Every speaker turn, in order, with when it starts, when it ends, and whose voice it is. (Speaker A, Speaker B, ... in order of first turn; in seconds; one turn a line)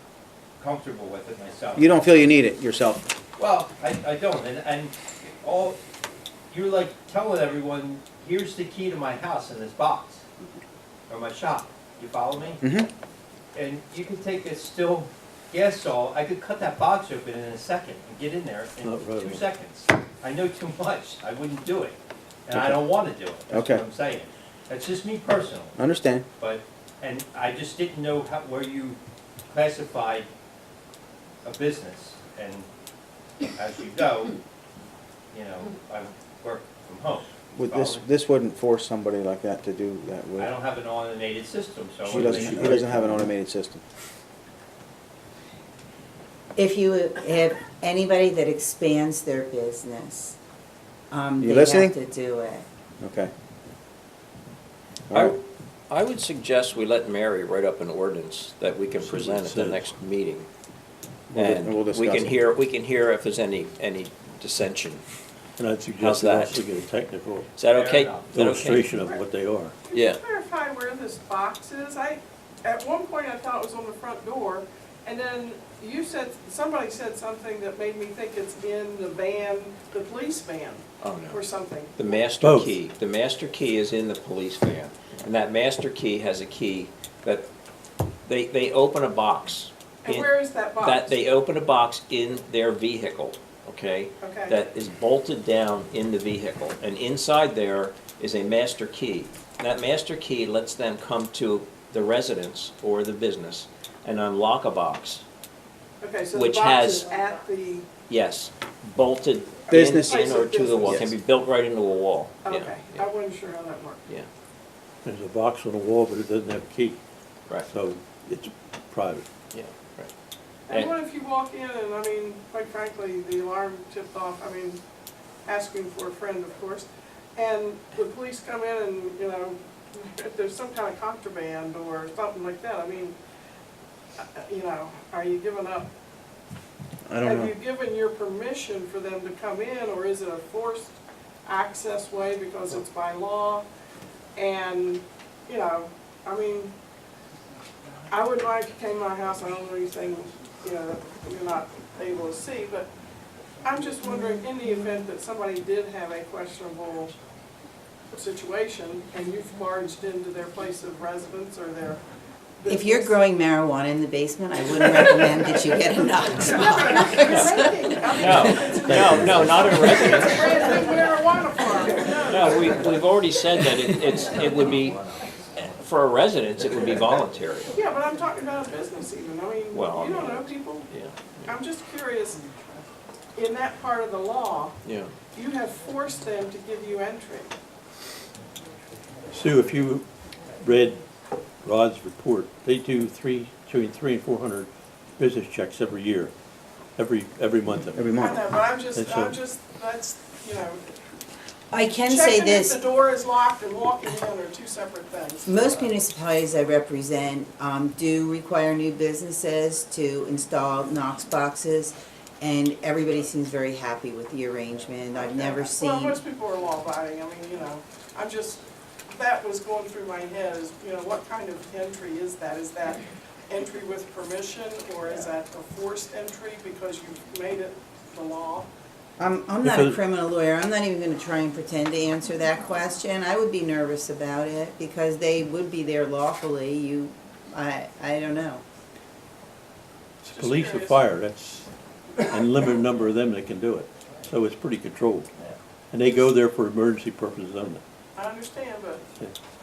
Speaker A: 0.6-1.9
Speaker B: 1.8-3.0
Speaker A: 3.4-5.8
Speaker A: 6.5-10.2
Speaker A: 11.1-12.6
Speaker B: 12.6-12.9
Speaker A: 13.5-25.8
Speaker C: 18.8-19.4
Speaker B: 23.5-23.8
Speaker B: 25.8-26.2
Speaker A: 26.4-29.0
Speaker A: 29.5-30.3
Speaker A: 31.4-32.7
Speaker A: 33.5-34.4
Speaker A: 35.3-38.0
Speaker B: 37.5-40.5
Speaker A: 40.4-42.8
Speaker B: 42.1-43.8
Speaker C: 42.1-43.3
Speaker D: 46.5-50.4
Speaker D: 51.1-52.6
Speaker B: 51.4-51.9
Speaker B: 53.0-53.3
Speaker B: 55.1-55.4
Speaker E: 55.1-60.5
Speaker C: 59.0-59.9
Speaker B: 61.3-62.4
Speaker E: 61.3-65.0
Speaker C: 65.6-67.5
Speaker E: 66.0-66.6
Speaker E: 67.5-68.9
Speaker A: 67.7-68.3
Speaker C: 68.3-69.7
Speaker F: 69.8-82.2
Speaker E: 69.9-70.2
Speaker E: 81.0-81.4
Speaker E: 82.0-87.5
Speaker C: 82.4-82.8
Speaker E: 88.2-105.2
Speaker F: 90.0-91.1
Speaker F: 94.2-94.6
Speaker F: 106.0-107.9
Speaker E: 106.3-107.1
Speaker E: 108.1-113.1
Speaker B: 109.7-110.3
Speaker F: 110.0-111.1
Speaker F: 112.4-114.0
Speaker C: 115.0-117.0
Speaker C: 117.6-119.2
Speaker E: 119.5-120.1
Speaker F: 120.7-124.8
Speaker F: 125.5-133.2
Speaker F: 134.2-135.9
Speaker B: 137.1-137.5
Speaker F: 137.2-143.6
Speaker F: 144.3-146.7
Speaker F: 148.1-152.9
Speaker F: 153.6-157.1
Speaker F: 158.1-162.0
Speaker F: 162.6-163.2
Speaker D: 162.7-167.8
Speaker F: 166.5-173.0
Speaker E: 167.3-170.8
Speaker C: 168.9-169.5
Speaker E: 172.3-175.0
Speaker E: 175.6-177.7
Speaker F: 177.7-180.9
Speaker E: 179.7-181.4
Speaker F: 181.4-182.4
Speaker F: 183.3-184.8
Speaker E: 184.8-185.1
Speaker F: 185.3-187.5
Speaker C: 189.3-190.1
Speaker C: 190.6-191.0
Speaker C: 191.6-196.3
Speaker C: 197.0-198.2
Speaker B: 197.9-198.4
Speaker F: 198.2-200.8
Speaker C: 198.9-199.4
Speaker D: 201.7-202.8
Speaker F: 202.0-205.5
Speaker D: 205.4-216.2
Speaker F: 215.2-228.7
Speaker D: 229.2-238.6
Speaker C: 229.6-230.0
Speaker C: 240.2-241.7
Speaker F: 240.3-241.0
Speaker C: 242.2-245.3
Speaker C: 245.9-247.8
Speaker F: 248.2-249.0